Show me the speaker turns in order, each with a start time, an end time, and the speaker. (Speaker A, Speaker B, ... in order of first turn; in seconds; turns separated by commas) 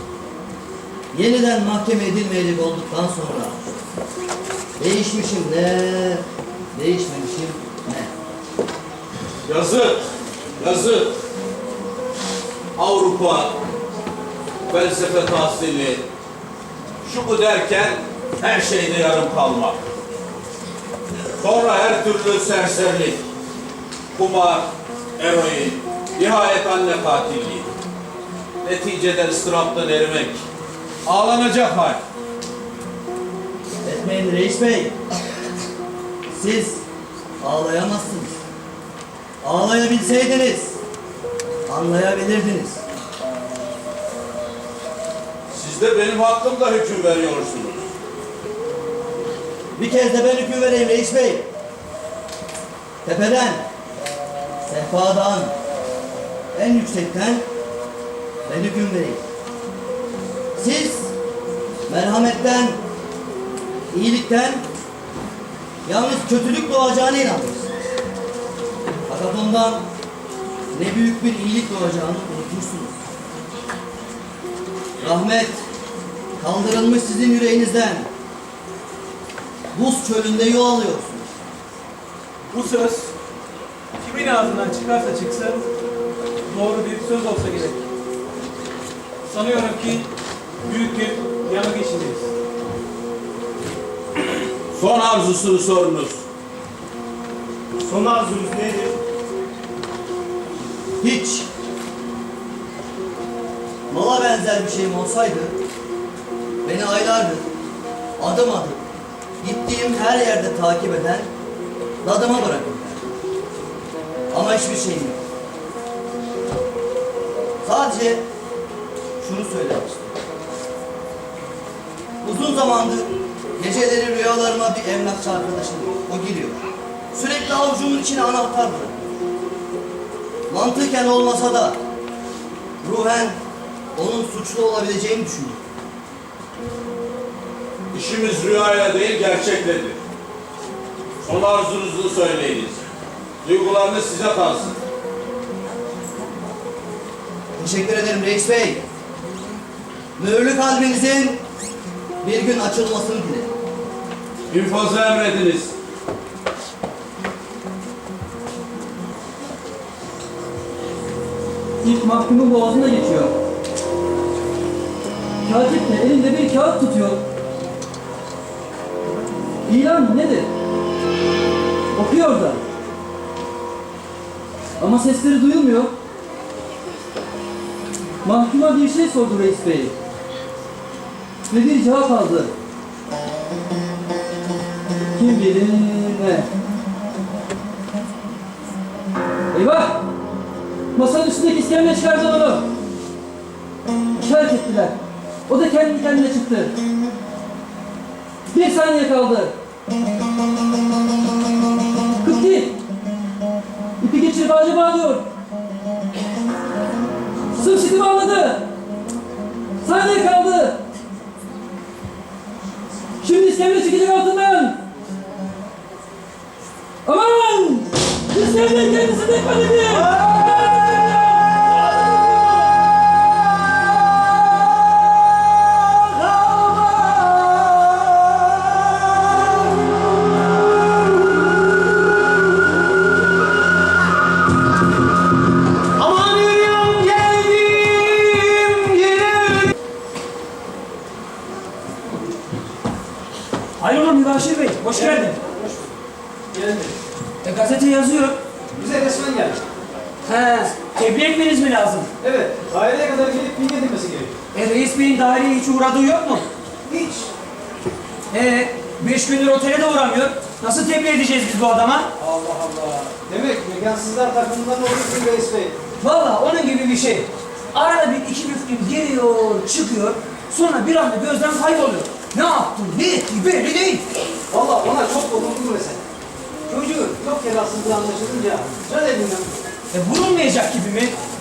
Speaker A: 1.1-3.6, Speaker A: 4.8-8.1, Speaker B: 9.4-10.1, Speaker B: 10.6-11.2, Speaker B: 12.8-13.6, Speaker B: 14.7-16.1, Speaker B: 17.0-19.8, Speaker B: 21.4-23.2, Speaker B: 24.1-27.7, Speaker B: 28.6-30.4, Speaker B: 31.1-32.0, Speaker A: 33.8-35.0, Speaker A: 36.3-36.8, Speaker A: 37.4-38.4, Speaker A: 39.4-40.8, Speaker A: 41.7-42.8, Speaker B: 45.5-47.9, Speaker A: 49.8-51.5, Speaker A: 53.0-53.6, Speaker A: 54.7-55.5, Speaker A: 56.5-57.5, Speaker A: 58.5-59.2, Speaker A: 60.6-61.1, Speaker A: 61.9-62.8, Speaker A: 63.9-64.7, Speaker A: 65.9-67.7, Speaker A: 69.1-69.9, Speaker A: 70.7-72.9, Speaker A: 75.0-75.7, Speaker A: 76.4-78.1, Speaker A: 79.7-81.3, Speaker C: 82.5-83.1, Speaker C: 85.2-85.6, Speaker C: 86.5-87.5, Speaker C: 89.3-90.0, Speaker C: 90.7-92.3, Speaker B: 94.7-96.2, Speaker C: 97.8-99.0, Speaker A: 101.0-101.5, Speaker A: 103.9-105.6, Speaker A: 106.6-107.5, Speaker A: 108.2-108.8, Speaker A: 109.4-111.3, Speaker A: 112.0-113.1, Speaker A: 114.3-115.2, Speaker A: 117.6-118.2, Speaker A: 119.2-120.2, Speaker A: 122.2-126.6, Speaker A: 127.1-129.0, Speaker A: 130.5-131.8, Speaker A: 132.8-133.4, Speaker A: 133.9-135.6, Speaker B: 137.9-140.0, Speaker B: 141.2-142.8, Speaker B: 143.4-144.8, Speaker A: 147.6-148.8, Speaker A: 150.2-151.4, Speaker A: 152.2-153.5, Speaker B: 154.5-155.7, Speaker D: 161.8-163.3, Speaker D: 165.4-167.2, Speaker D: 169.7-170.5, Speaker D: 171.9-172.6, Speaker D: 174.8-175.9, Speaker D: 178.2-179.9, Speaker D: 181.5-182.5, Speaker D: 185.2-186.5, Speaker D: 189.5-190.0, Speaker D: 190.9-192.7, Speaker D: 194.2-195.0, Speaker D: 195.5-196.7, Speaker D: 198.5-199.5, Speaker D: 202.2-202.8, Speaker D: 204.0-205.2, Speaker D: 207.5-208.6, Speaker D: 209.8-210.8, Speaker D: 213.2-214.8, Speaker D: 217.1-221.4, Speaker D: 236.0-237.7, Speaker D: 238.4-238.8, Speaker E: 243.8-245.4, Speaker C: 244.9-245.9, Speaker C: 246.5-247.0, Speaker E: 247.4-248.4, Speaker C: 248.7-249.6, Speaker E: 250.2-252.1, Speaker C: 252.2-254.3, Speaker E: 254.5-256.5, Speaker C: 256.9-257.3, Speaker E: 258.3-262.1, Speaker C: 262.2-265.8, Speaker E: 266.0-274.0, Speaker C: 274.5-276.0, Speaker E: 276.7-277.2, Speaker C: 277.2-279.5, Speaker E: 279.9-281.1